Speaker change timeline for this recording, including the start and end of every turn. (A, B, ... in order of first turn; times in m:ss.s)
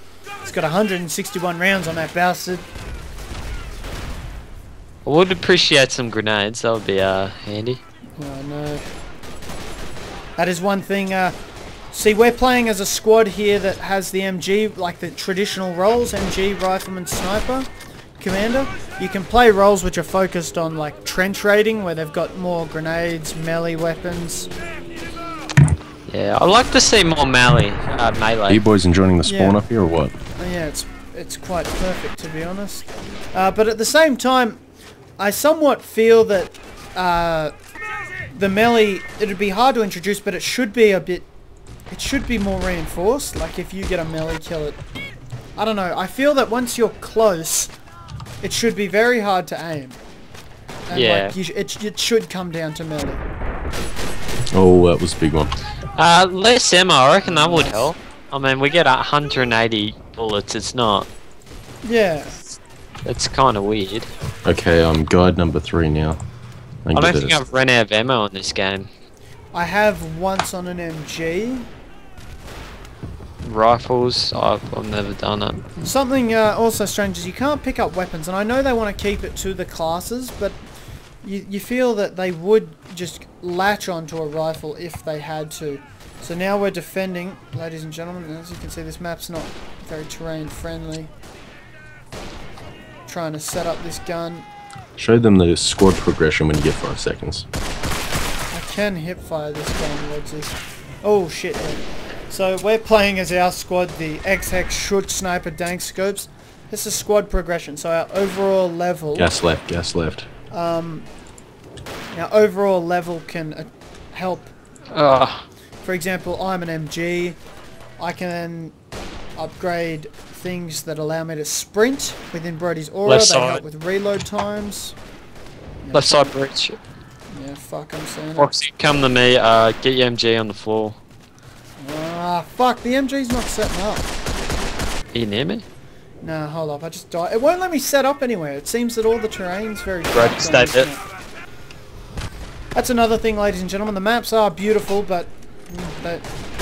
0:00.4-0:02.6 A
0:05.0-0:07.8 B
0:08.2-0:08.8 A
0:10.4-0:11.4 A
0:11.9-0:17.7 A
0:18.2-0:24.5 A
0:26.1-0:28.6 B
0:28.5-0:30.1 C
0:29.2-0:29.6 A
0:30.4-0:34.6 A
0:35.2-0:37.5 A
0:38.3-0:41.3 A
0:41.9-0:44.8 A
0:45.6-0:47.7 A
0:48.4-0:50.0 A
0:50.9-0:53.2 A
0:50.9-0:51.3 B
0:54.5-0:55.5 C
0:56.0-1:01.1 B
0:57.2-0:57.9 A
1:01.8-1:02.4 A
1:03.0-1:04.1 B
1:04.4-1:06.2 C
1:06.8-1:07.4 C
1:06.9-1:08.9 B
1:09.5-1:11.7 A
1:13.4-1:15.8 B
1:15.8-1:20.6 A
1:21.2-1:31.1 A
1:33.1-1:34.4 A
1:35.0-1:37.4 C
1:38.5-1:49.4 A
1:49.2-1:50.3 C
1:50.5-1:51.1 A
1:52.1-1:54.5 A
1:54.9-1:55.4 B
1:55.8-1:57.4 A
1:58.0-1:58.7 A
1:59.4-2:05.0 A
2:03.0-2:03.6 B
2:05.8-2:06.3 A
2:05.9-2:06.8 B
2:07.3-2:08.5 A
2:08.4-2:11.0 B
2:11.8-2:14.0 A
2:15.1-2:15.6 B
2:16.2-2:21.0 A
2:20.1-2:20.9 B
2:22.7-2:26.2 A